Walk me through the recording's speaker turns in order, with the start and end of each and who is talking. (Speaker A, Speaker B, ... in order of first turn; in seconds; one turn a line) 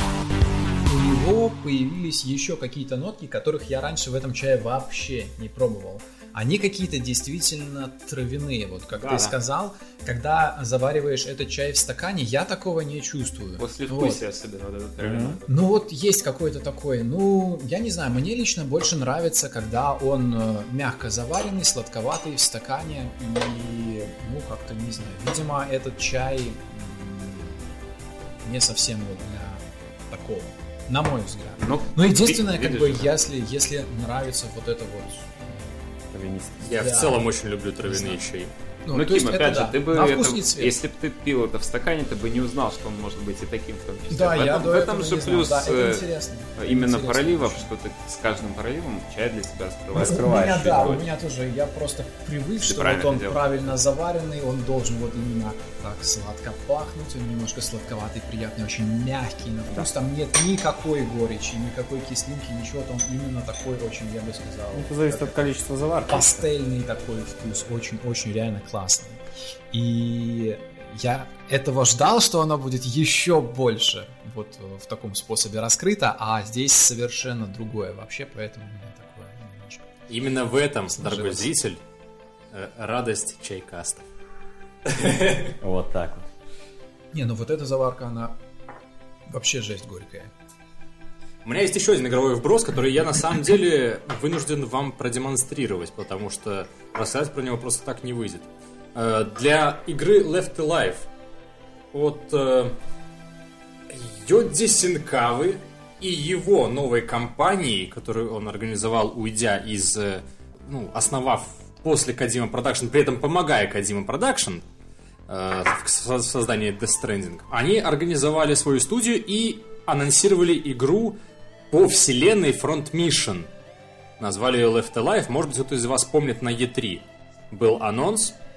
Speaker A: 0.8-14.2
Speaker B: 9.0-9.3
Speaker B: 13.6-15.5
Speaker C: 15.0-15.4
Speaker A: 15.5-27.6
Speaker A: 28.4-35.6
Speaker B: 31.6-33.1
Speaker C: 36.1-36.7
Speaker D: 36.6-38.5
Speaker A: 36.7-37.2
Speaker A: 37.9-38.2
Speaker A: 38.9-40.8
Speaker B: 38.9-51.1
Speaker A: 44.1-47.7
Speaker C: 49.9-50.9
Speaker A: 49.9-65.3
Speaker B: 52.6-53.4
Speaker C: 64.7-66.5
Speaker A: 66.1-79.9
Speaker D: 80.1-81.8
Speaker A: 80.9-81.5
Speaker D: 82.5-84.0
Speaker D: 84.8-85.5
Speaker C: 85.6-86.2
Speaker A: 87.1-88.3
Speaker A: 89.3-90.3
Speaker D: 91.4-101.1
Speaker D: 101.9-102.7
Speaker D: 103.9-114.6
Speaker D: 115.3-121.2
Speaker D: 121.7-123.5
Speaker D: 124.2-128.3